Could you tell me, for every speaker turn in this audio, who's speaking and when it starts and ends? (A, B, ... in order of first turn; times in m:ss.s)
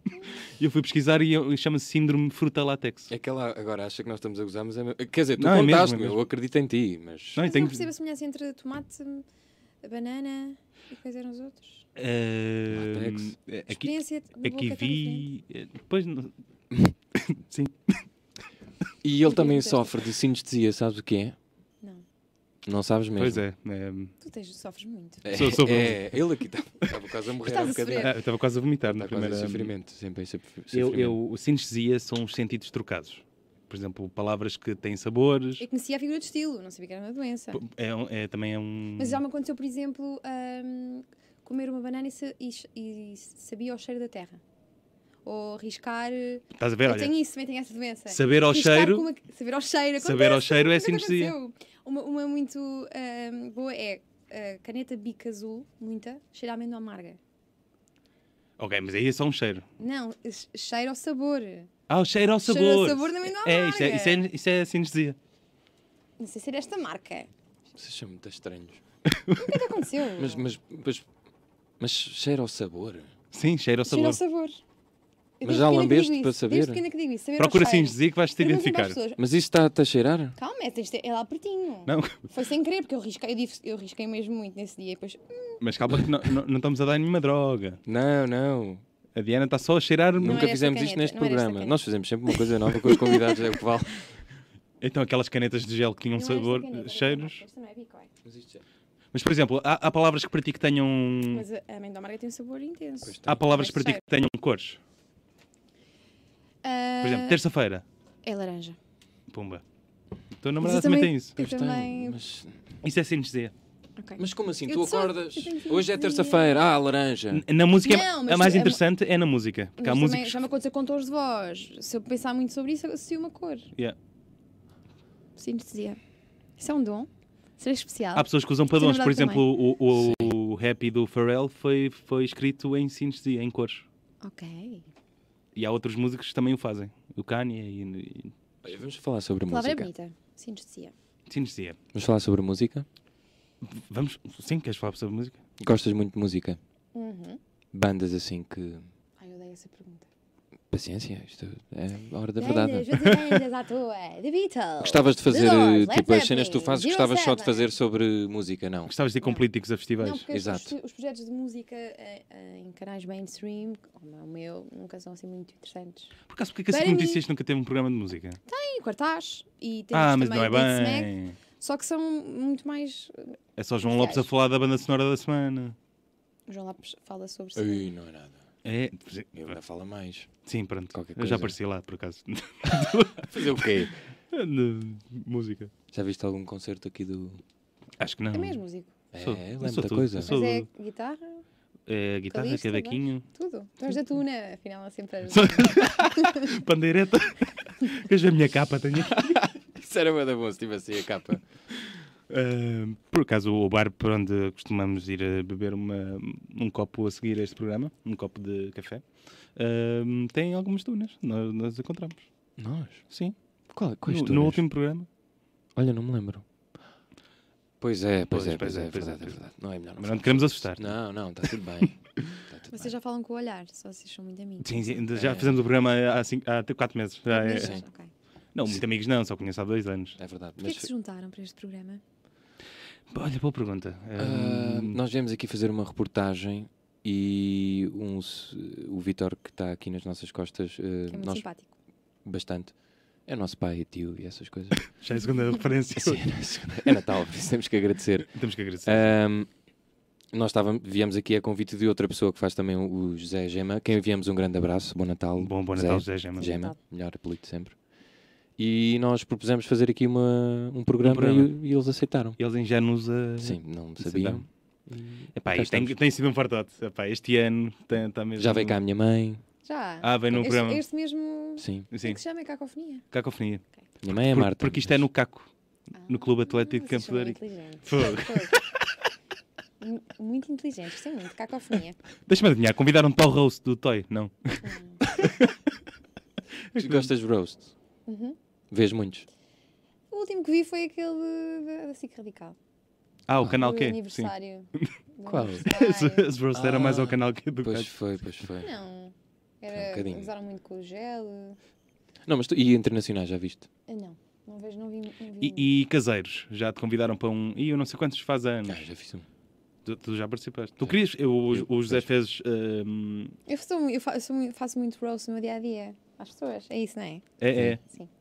0:00.4-0:03.1 A
0:03.1-0:07.5 B
0:05.4-0:06.2 A
0:07.4-0:07.9 A
0:07.4-0:09.3 C
0:09.8-0:11.8 C
0:12.0-0:16.3 A
0:12.7-0:13.4 B
0:13.7-0:15.3 C
0:17.2-0:18.0 A
0:19.0-0:21.4 B
0:19.2-0:19.9 C
0:22.6-0:23.4 B
0:23.2-0:24.1 A
0:24.2-0:25.4 C
0:25.2-0:28.2 B
0:25.3-0:26.2 A
0:27.4-0:28.2 C
0:28.0-0:29.7 A
0:28.9-0:31.2 B
0:30.7-0:35.6 A
0:35.6-0:37.6 C
0:37.5-0:39.2 A
0:39.0-0:44.4 C
0:45.2-0:57.2 C
0:46.6-0:47.1 A
0:48.1-0:49.1 A
0:50.0-0:51.4 A
0:58.6-0:59.6 A
0:59.8-1:01.7 C
1:01.9-1:05.2 A
1:02.4-1:04.2 C
1:06.2-1:07.3 C
1:07.8-1:08.8 B
1:09.1-1:09.5 A
1:09.4-1:10.5 C
1:10.2-1:11.1 B
1:11.8-1:13.1 B
1:13.3-1:14.2 A
1:13.9-1:14.6 C
1:15.4-1:19.2 C
1:15.4-1:16.8 B
1:17.4-1:19.0 A
1:19.2-1:20.4 B
1:20.4-1:25.6 C
1:21.9-1:22.2 A
1:25.6-1:27.8 A
1:27.9-1:28.8 B
1:29.2-1:30.4 A
1:30.2-1:34.1 B
1:30.2-1:33.6 C
1:34.8-1:37.4 A
1:36.2-1:38.1 C
1:38.2-1:38.6 B
1:39.1-1:41.4 A
1:41.3-1:44.0 C
1:43.0-1:43.4 B
1:43.2-1:44.8 A
1:46.6-1:47.4 C
1:47.0-1:47.8 A
1:48.2-1:48.8 C
1:49.3-1:49.6 A
1:50.4-1:51.4 A
1:50.6-1:52.2 C
1:51.4-1:52.6 B
1:52.8-1:53.5 A
1:54.0-1:56.6 C
1:54.2-1:57.4 B
1:57.3-2:00.4 A
1:57.8-1:58.8 C
1:59.8-2:03.7 C
2:05.4-2:06.0 C
2:06.6-2:09.5 C
2:08.2-2:13.8 A
2:09.9-2:10.4 B
2:14.2-2:14.9 C
2:15.6-2:18.3 A
2:18.6-2:19.9 B
2:19.5-2:20.9 C
2:21.3-2:21.8 A
2:21.9-2:22.9 B
2:23.6-2:25.4 A
2:25.6-2:26.6 B
2:27.0-2:27.4 C
2:27.7-2:28.9 B
2:29.2-2:30.1 C
2:30.7-2:33.2 B
2:32.4-2:37.7 C
2:34.8-2:38.9 B
2:38.9-2:40.3 A
2:40.0-2:46.1 C
2:40.3-2:40.8 B
2:46.3-2:48.4 A
2:46.7-2:47.2 C
2:48.5-2:54.3 C
2:49.9-2:51.4 A
2:53.6-2:55.8 A
2:56.5-2:57.9 C
2:57.6-2:58.4 B
2:58.6-2:59.6 A
2:59.4-3:00.3 B
3:00.5-3:05.7 A
3:00.9-3:01.6 B
3:02.7-3:04.0 B
3:05.9-3:07.4 B
3:08.0-3:08.6 A
3:08.3-3:08.9 C
3:09.1-3:10.4 B
3:09.2-3:10.7 A
3:10.2-3:11.4 C
3:11.9-3:13.2 A
3:12.3-3:16.5 C
3:15.3-3:19.4 A
3:19.1-3:21.4 B
3:22.3-3:29.0 A
3:29.6-3:32.2 A
3:32.6-3:33.0 B
3:33.7-3:34.6 B
3:34.0-3:35.1 A
3:35.8-3:36.4 B
3:37.8-3:42.9 B
3:38.3-3:39.4 A
3:40.0-3:41.0 A
3:42.7-3:45.0 C
3:44.6-3:47.8 A
3:45.1-3:45.6 B
3:47.3-3:48.1 C
3:47.6-3:47.8 B
3:48.6-3:50.2 A
3:50.2-3:50.9 B
3:50.6-3:52.0 C
3:53.1-3:55.0 A
3:54.2-4:01.4 B
4:01.1-4:01.7 C
4:02.2-4:02.8 B
4:03.3-4:04.9 B
4:05.0-4:06.4 A
4:05.9-4:09.5 B
4:08.3-4:09.1 A
4:10.3-4:17.8 B
4:15.4-4:16.5 A
4:16.4-4:16.8 C
4:18.6-4:22.4 B
4:21.0-4:21.5 A
4:22.4-4:24.4 A
4:23.4-4:26.0 B
4:25.4-4:28.8 A
4:28.4-4:29.4 B
4:29.6-4:33.0 C
4:30.0-4:30.8 A
4:31.6-4:31.9 B
4:31.9-4:32.2 A
4:33.1-4:35.5 A
4:34.0-4:35.0 B
4:36.0-4:38.6 C
4:36.1-4:38.8 A
4:39.8-4:42.0 C
4:42.3-4:45.6 A
4:44.6-4:45.0 C
4:46.7-4:47.1 A
4:46.8-4:47.7 B
4:48.1-4:48.4 C
4:48.7-4:49.3 B
4:50.1-4:52.6 C
4:53.3-4:54.9 A
4:53.5-4:56.3 C
4:55.3-4:55.7 B
4:55.5-4:57.9 A
4:56.5-4:58.7 B
4:58.6-5:01.6 C
4:59.7-5:00.3 B
5:02.3-5:03.7 B
5:03.9-5:05.7 C
5:05.4-5:08.8 A
5:08.7-5:09.3 B
5:09.8-5:13.4 A
5:11.5-5:12.1 B
5:13.5-5:17.2 C
5:17.4-5:17.8 A